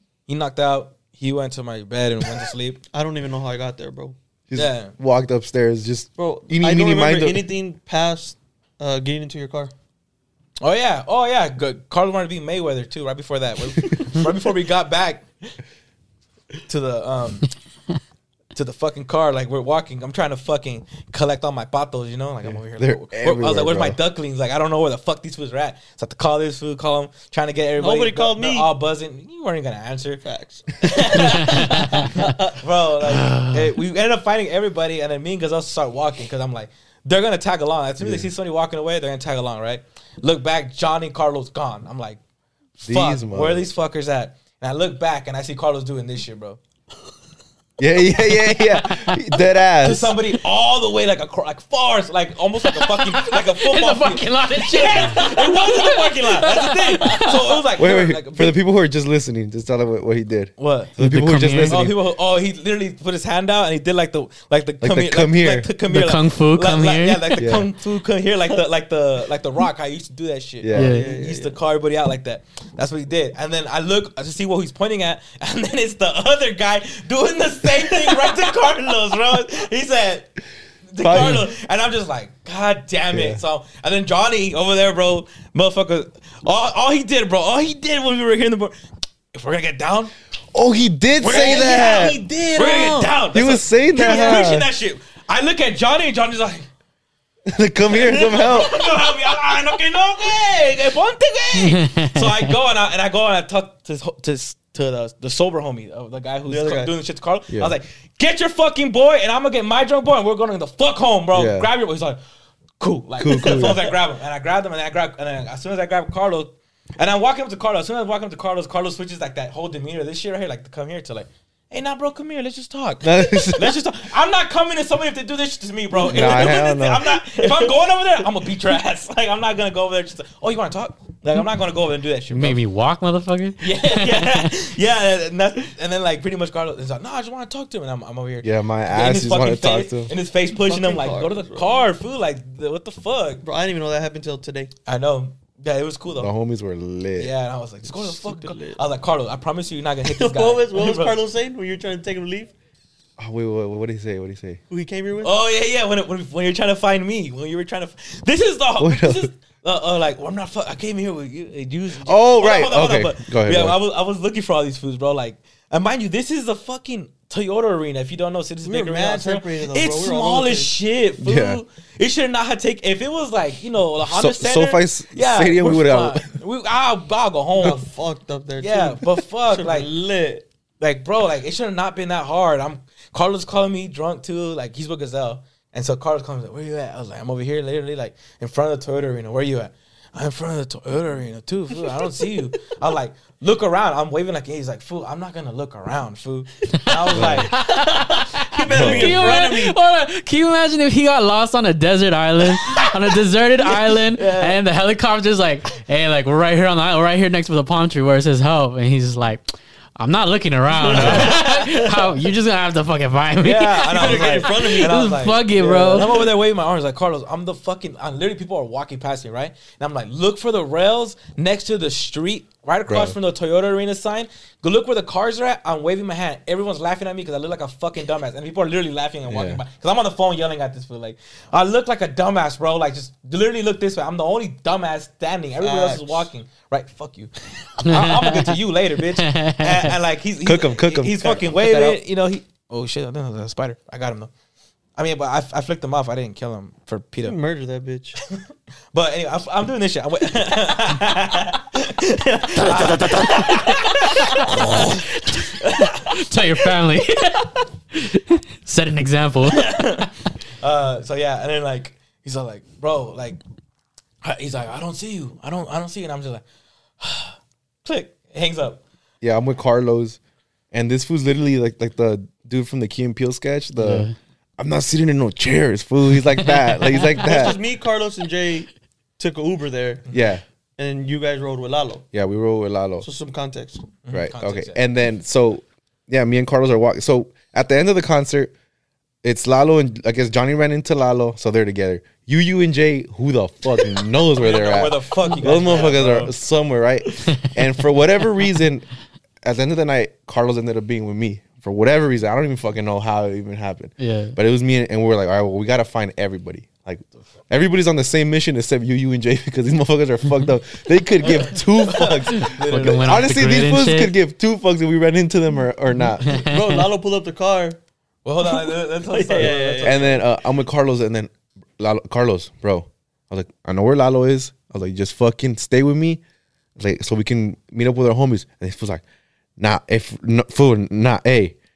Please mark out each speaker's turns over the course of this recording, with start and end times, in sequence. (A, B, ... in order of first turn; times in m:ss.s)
0:00.3-0:02.8 A
0:02.9-0:04.2 B
0:04.5-0:07.5 C
0:04.5-0:04.9 A
0:06.2-0:09.7 B
0:10.6-0:15.3 A
0:16.7-0:17.5 A
0:18.5-0:30.2 A
0:22.4-0:24.0 C
0:27.8-0:28.7 B
0:30.2-0:32.6 B
0:30.8-0:42.2 A
0:31.5-0:32.0 D
0:33.1-0:33.6 D
0:38.0-0:38.3 C
0:42.8-0:46.6 A
0:42.8-0:43.7 C
0:47.8-0:50.2 C
0:49.8-0:58.6 A
0:52.7-0:57.6 D
0:54.8-0:55.1 B
0:57.8-1:02.0 C
1:00.6-1:00.9 A
1:01.0-1:01.9 D
1:01.6-1:20.3 A
1:04.8-1:05.7 C
1:05.9-1:07.5 D
1:07.4-1:07.7 C
1:10.6-1:11.0 C
1:10.7-1:11.1 D
1:10.7-1:11.6 B
1:18.0-1:18.4 B
1:20.9-1:28.7 A
1:21.0-1:21.5 C
1:23.1-1:23.4 C
1:29.3-1:30.1 A
1:30.5-1:32.2 C
1:31.2-1:36.7 A
1:31.2-1:33.1 B
1:33.3-1:34.7 C
1:37.4-1:38.8 C
1:37.9-1:52.2 A
1:41.5-1:42.4 D
1:46.5-1:46.9 B
1:51.3-1:51.7 C
1:52.8-2:12.6 A
1:53.2-1:53.9 C
1:53.3-1:53.9 B
2:03.0-2:03.8 C
2:05.9-2:06.6 B
2:06.1-2:07.2 C
2:07.2-2:07.7 B
2:12.3-2:14.5 D
2:13.6-2:23.4 A
2:18.4-2:20.1 C
2:20.6-2:21.8 B
2:23.4-2:24.7 B
2:24.8-2:26.3 A
2:26.2-2:27.3 C
2:27.2-2:31.2 A
2:27.9-2:28.8 B
2:30.0-2:32.5 B
2:33.2-2:34.6 C
2:34.7-2:35.3 B
2:35.2-2:57.8 A
2:38.8-2:39.3 C
2:42.0-2:43.8 C
2:48.6-2:50.7 B
2:51.2-2:51.6 C
2:54.0-2:56.2 C
2:57.6-3:00.4 B
2:58.6-2:59.9 A
3:00.8-3:17.5 A
3:17.1-3:17.5 C
3:17.5-3:36.1 D
3:17.5-3:19.8 B
3:18.7-3:19.3 C
3:24.1-3:24.6 A
3:30.8-3:31.8 B
3:30.8-3:31.7 A
3:33.4-4:04.3 A
3:33.9-3:36.3 B
3:42.9-3:43.2 C
3:49.3-3:49.6 C
3:55.6-3:56.3 B
3:57.8-3:58.6 D
3:59.2-3:59.9 D
4:00.4-4:01.8 C
4:05.0-4:07.4 A
4:07.2-4:08.2 B
4:08.3-4:16.2 A
4:13.0-4:20.0 D
4:14.5-4:14.8 B
4:19.5-4:23.4 A
4:24.2-4:26.4 A
4:27.0-4:28.8 A
4:29.2-4:30.2 C
4:30.7-4:34.1 C
4:33.8-4:34.1 D
4:34.6-4:37.6 C
4:36.8-4:37.1 D
4:37.1-4:40.0 B
4:40.1-4:40.4 C
4:40.8-4:42.0 B
4:42.1-4:43.1 C
4:43.0-4:43.8 B
4:44.0-4:44.8 A
4:44.1-4:48.5 C
4:49.2-4:58.8 C
4:54.4-4:56.3 A
4:59.4-5:16.4 C
5:04.0-5:04.4 D
5:11.2-5:13.3 A
5:12.3-5:14.1 D
5:16.2-5:16.8 D
5:16.2-5:17.8 B
5:18.2-5:20.2 A
5:18.4-5:20.1 B
5:19.4-5:26.2 C
5:26.8-5:29.0 C
5:29.6-5:31.5 C